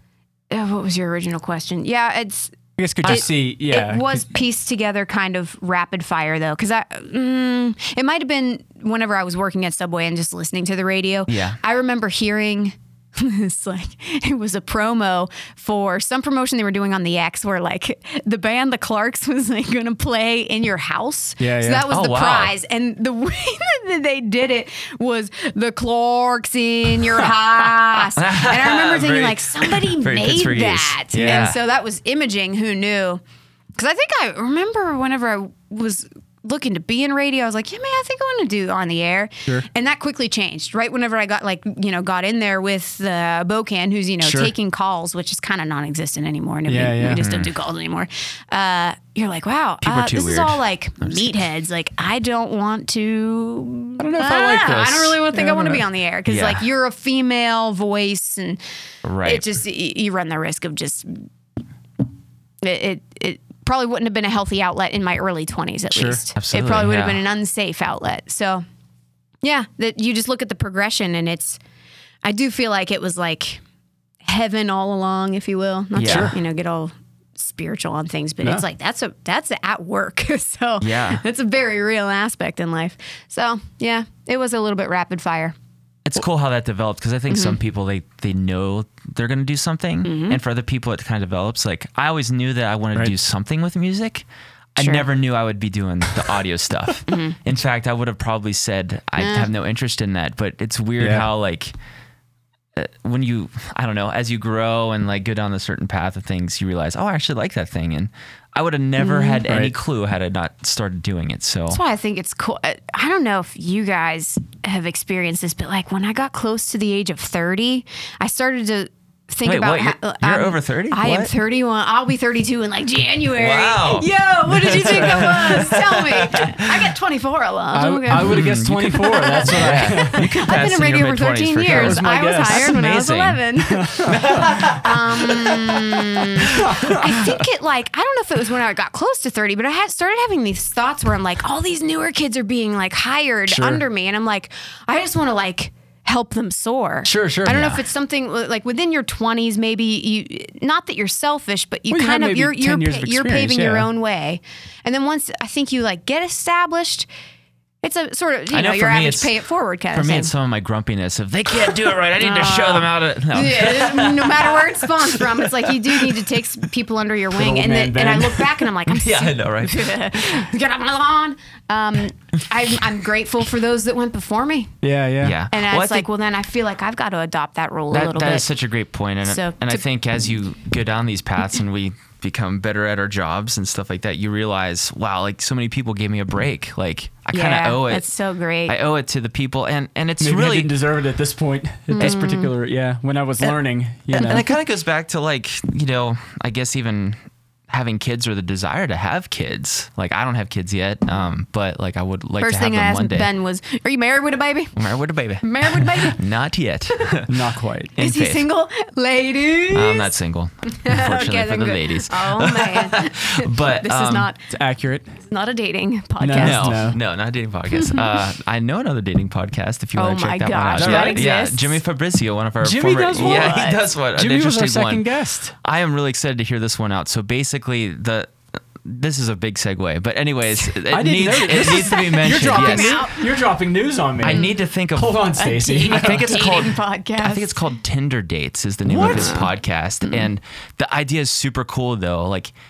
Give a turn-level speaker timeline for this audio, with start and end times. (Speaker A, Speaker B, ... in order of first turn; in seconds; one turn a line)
Speaker A: 0.5-2.5
Speaker B: 2.8-4.2
Speaker A: 3.0-33.2
Speaker C: 11.3-11.6
Speaker B: 21.4-21.9
Speaker C: 21.9-22.5
Speaker C: 28.1-31.6
Speaker B: 31.1-31.5
Speaker A: 33.8-58.6
Speaker B: 44.2-44.5
Speaker B: 46.7-47.2
Speaker C: 47.2-47.5
Speaker C: 49.8-51.3
Speaker B: 54.0-55.8
Speaker C: 56.3-56.6
Speaker C: 59.0-59.4
Speaker A: 59.2-61.1
Speaker A: 62.6-68.6
Speaker B: 65.9-66.2
Speaker C: 66.3-67.2
Speaker A: 69.4-71.6
Speaker A: 72.2-73.6
Speaker A: 74.2-85.5
Speaker C: 75.9-76.3
Speaker B: 76.0-76.3
Speaker C: 80.8-81.2
Speaker C: 86.0-101.7
Speaker A: 87.3-87.6
Speaker A: 90.0-90.4
Speaker A: 94.8-95.1
Speaker A: 97.1-97.4
Speaker A: 99.2-99.5
Speaker B: 101.0-101.3
Speaker C: 102.8-111.8
Speaker A: 109.0-109.4
Speaker B: 109.5-109.7
Speaker A: 111.7-157.1
Speaker C: 119.4-121.3
Speaker C: 123.3-126.9
Speaker B: 127.7-130.3
Speaker C: 128.1-133.4
Speaker B: 131.7-132.8
Speaker B: 133.6-134.6
Speaker C: 134.0-136.9
Speaker B: 136.2-137.4
Speaker B: 143.5-143.8
Speaker B: 147.0-147.7
Speaker C: 147.4-147.8
Speaker B: 151.9-153.9
Speaker A: 157.8-160.3
Speaker C: 158.5-159.3
Speaker C: 159.9-166.2
Speaker A: 162.2-174.7
Speaker B: 167.3-168.6
Speaker C: 168.8-170.0
Speaker B: 174.8-175.4
Speaker C: 175.2-176.1
Speaker A: 175.5-178.5
Speaker C: 177.9-188.1
Speaker A: 179.2-179.8
Speaker A: 187.3-188.7
Speaker C: 188.7-190.7
Speaker B: 190.2-194.4
Speaker A: 191.9-192.5
Speaker C: 194.1-203.3
Speaker A: 202.4-204.8
Speaker C: 204.7-207.3
Speaker A: 205.4-206.2
Speaker B: 207.3-207.9
Speaker C: 208.0-208.4
Speaker A: 208.0-210.1
Speaker C: 209.7-214.3
Speaker A: 210.7-214.5
Speaker B: 214.5-215.1
Speaker A: 215.3-216.9
Speaker B: 216.2-217.0
Speaker C: 216.4-233.1
Speaker A: 217.7-218.2
Speaker A: 220.0-221.8
Speaker B: 220.8-221.3
Speaker B: 222.6-225.5
Speaker A: 223.1-223.8
Speaker B: 230.9-236.4
Speaker A: 231.6-233.3
Speaker C: 234.2-242.5
Speaker A: 234.3-234.6
Speaker A: 235.4-237.6
Speaker B: 238.8-239.4
Speaker A: 239.0-239.5